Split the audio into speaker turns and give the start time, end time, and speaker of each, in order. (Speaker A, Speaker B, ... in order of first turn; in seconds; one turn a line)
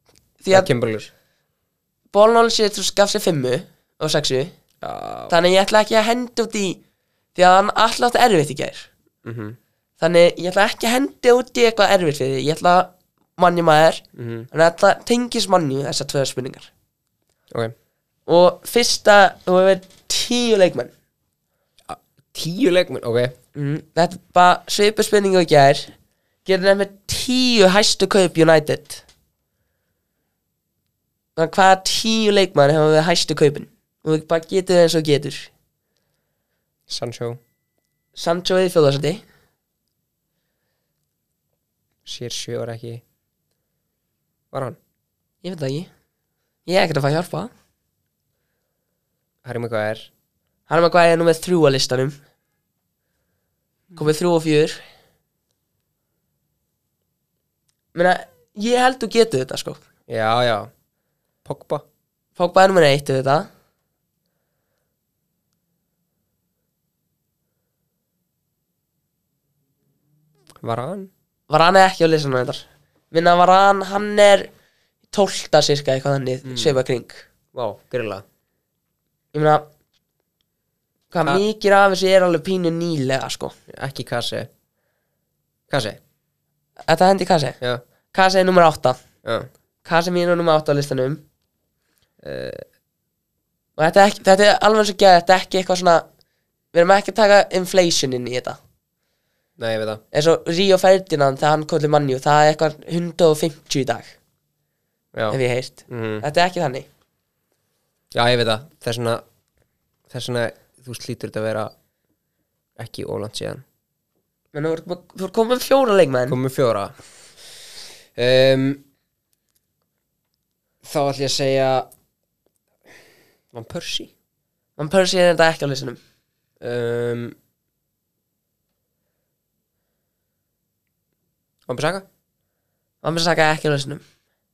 Speaker A: 0.4-0.7
Speaker B: 0.5-1.1
Speaker A: 2.1-4.5
Speaker B: 4.8-5.3
Speaker A: 5.3-6.8
Speaker A: 7.3-8.9
Speaker B: 9.2-9.6
Speaker A: 10.0-16.7
Speaker B: 14.2-14.5
Speaker A: 18.3-20.9
Speaker B: 21.9-23.3
Speaker A: 23.6-25.9
Speaker A: 26.4-29.0
Speaker A: 31.4-35.5
Speaker B: 36.9-37.4
Speaker A: 38.1-39.2
Speaker B: 42.1-43.0
Speaker B: 44.5-44.8
Speaker A: 45.4-45.9
Speaker A: 46.7-47.5
Speaker B: 49.4-50.1
Speaker A: 50.7-52.2
Speaker A: 54.0-54.8
Speaker A: 57.9-59.8
Speaker B: 60.1-60.7
Speaker B: 61.5-61.9
Speaker A: 62.4-63.5
Speaker B: 70.6-71.1
Speaker A: 71.5-74.5
Speaker A: 75.1-77.2
Speaker B: 76.5-76.8
Speaker B: 77.5-78.2
Speaker A: 79.3-79.6
Speaker A: 81.1-83.6
Speaker B: 83.7-84.5
Speaker B: 85.7-86.0
Speaker A: 86.9-87.6
Speaker A: 88.1-89.0
Speaker B: 89.2-89.5
Speaker A: 89.8-91.2
Speaker B: 92.2-92.6
Speaker A: 93.8-96.0
Speaker A: 96.7-98.6
Speaker B: 99.6-100.0
Speaker A: 100.1-104.1
Speaker B: 105.1-106.2
Speaker A: 105.3-106.9
Speaker B: 108.1-109.2
Speaker B: 110.1-111.7
Speaker B: 112.8-113.6
Speaker A: 114.5-116.4
Speaker B: 116.3-117.0
Speaker B: 118.2-118.8
Speaker B: 120.8-121.9
Speaker B: 123.5-124.1
Speaker A: 124.8-126.0
Speaker B: 126.6-127.4
Speaker B: 131.7-132.1
Speaker A: 133.0-134.0